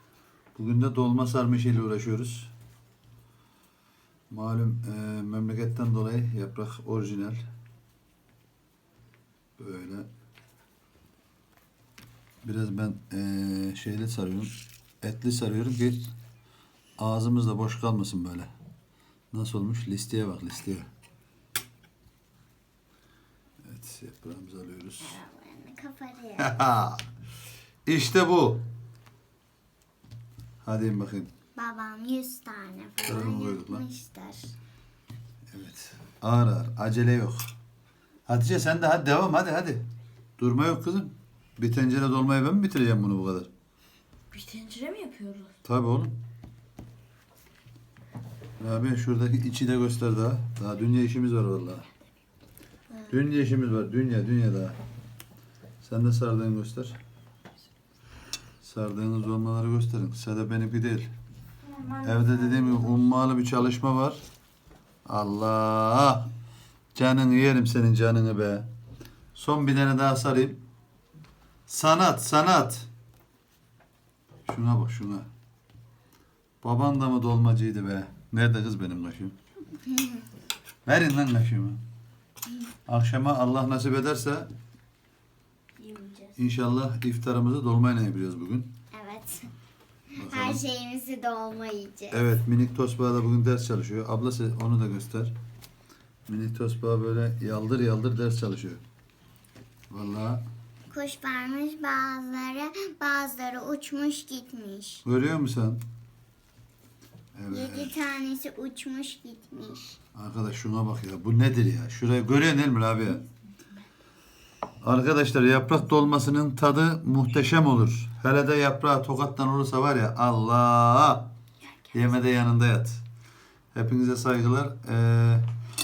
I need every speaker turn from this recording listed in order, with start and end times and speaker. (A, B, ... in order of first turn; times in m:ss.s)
0:00.6-0:02.5 A
0:04.3-0:07.4 A
0:09.6-0:10.1 A
0:12.4-0:16.0 A
0:17.0-0:18.5 A
0:19.3-0:20.9 A
0:23.6-0:25.2 A
0:25.0-0:26.6 B
0:26.4-0:27.0 A
0:27.9-0:28.6 A
0:30.6-0:31.3 A
0:31.6-0:34.5 B
0:33.0-0:33.8 A
0:35.5-0:37.4 A
0:38.3-0:39.8 A
0:40.4-0:43.5 A
0:44.3-0:45.5 C
0:45.6-0:46.2 A
0:48.6-0:51.9 A
0:52.9-0:53.2 B
0:53.1-0:54.8 A
0:55.8-0:57.0 A
0:58.6-1:01.1 A
1:01.8-1:02.6 C
1:02.0-1:04.2 A
1:05.1-1:06.3 A
1:07.0-1:08.7 A
1:09.4-1:10.6 A
1:11.7-1:12.9 A
1:14.5-1:15.3 A
1:16.6-1:19.4 A
1:19.9-1:20.2 B
1:20.9-1:21.8 A
1:22.9-1:24.5 A
1:25.8-1:26.3 B
1:26.4-1:28.7 A
1:28.9-1:29.5 B
1:30.2-1:30.6 A
1:30.2-1:32.2 B
1:32.1-1:35.3 A
1:36.3-1:38.8 A
1:39.9-1:40.4 A
1:40.9-1:45.0 B
1:45.0-1:45.8 A
1:47.4-1:47.9 A
1:47.5-1:50.0 B
1:50.2-1:53.2 A
1:54.8-2:01.3 A
2:01.9-2:03.0 A
2:03.7-2:05.4 A